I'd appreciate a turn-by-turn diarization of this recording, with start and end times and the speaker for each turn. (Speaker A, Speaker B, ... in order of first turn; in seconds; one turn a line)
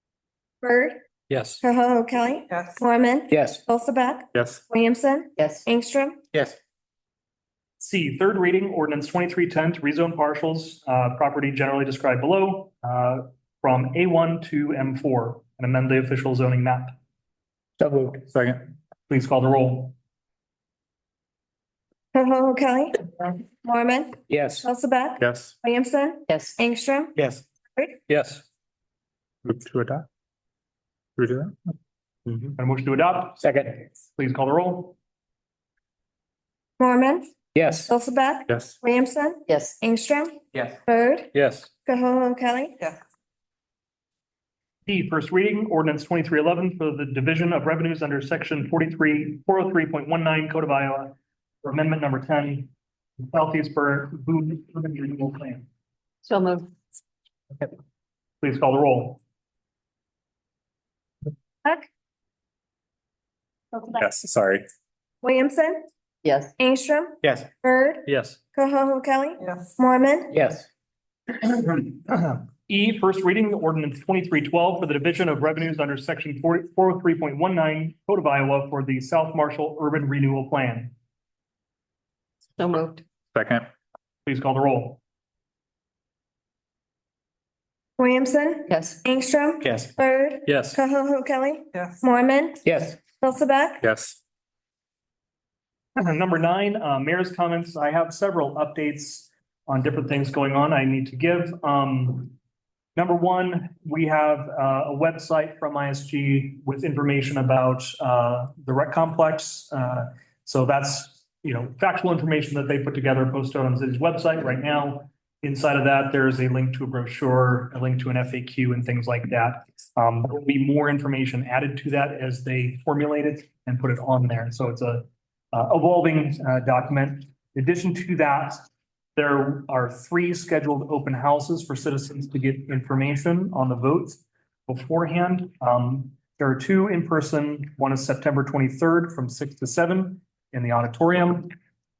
Speaker A: 0.6-1.0
Speaker B: 1.3-1.6
Speaker A: 1.6-6.2
Speaker C: 3.3-3.6
Speaker D: 4.3-4.6
Speaker E: 5.4-5.7
Speaker B: 7.8-16.9
Speaker C: 17.8-18.2
Speaker D: 18.3-18.6
Speaker B: 19.1-19.9
Speaker A: 22.1-27.2
Speaker C: 24.3-24.7
Speaker D: 25.2-25.5
Speaker E: 26.3-26.6
Speaker A: 27.8-28.0
Speaker B: 28.1-28.4
Speaker D: 29.4-30.0
Speaker D: 31.2-31.6
Speaker B: 32.5-33.4
Speaker C: 33.4-33.8
Speaker B: 34.1-35.0
Speaker A: 36.8-37.3
Speaker C: 37.5-37.9
Speaker A: 37.9-41.3
Speaker D: 38.5-38.7
Speaker E: 39.5-39.8
Speaker B: 41.3-41.6
Speaker A: 41.8-42.9
Speaker B: 44.9-55.6
Speaker E: 56.2-56.7
Speaker B: 58.4-59.2
Speaker D: 63.9-64.6
Speaker A: 65.2-65.8
Speaker E: 66.2-66.5
Speaker A: 66.6-70.3
Speaker B: 68.0-68.4
Speaker C: 70.3-70.7
Speaker B: 71.6-80.9
Speaker E: 82.6-83.0
Speaker D: 83.3-83.7
Speaker B: 84.2-85.0
Speaker A: 88.0-92.6
Speaker E: 88.7-89.0
Speaker B: 90.5-90.8
Speaker C: 92.6-93.0
Speaker A: 93.2-93.8
Speaker D: 93.8-94.2
Speaker B: 96.0-102.3
Speaker B: 103.0-128.6
Speaker B: 129.2-141.5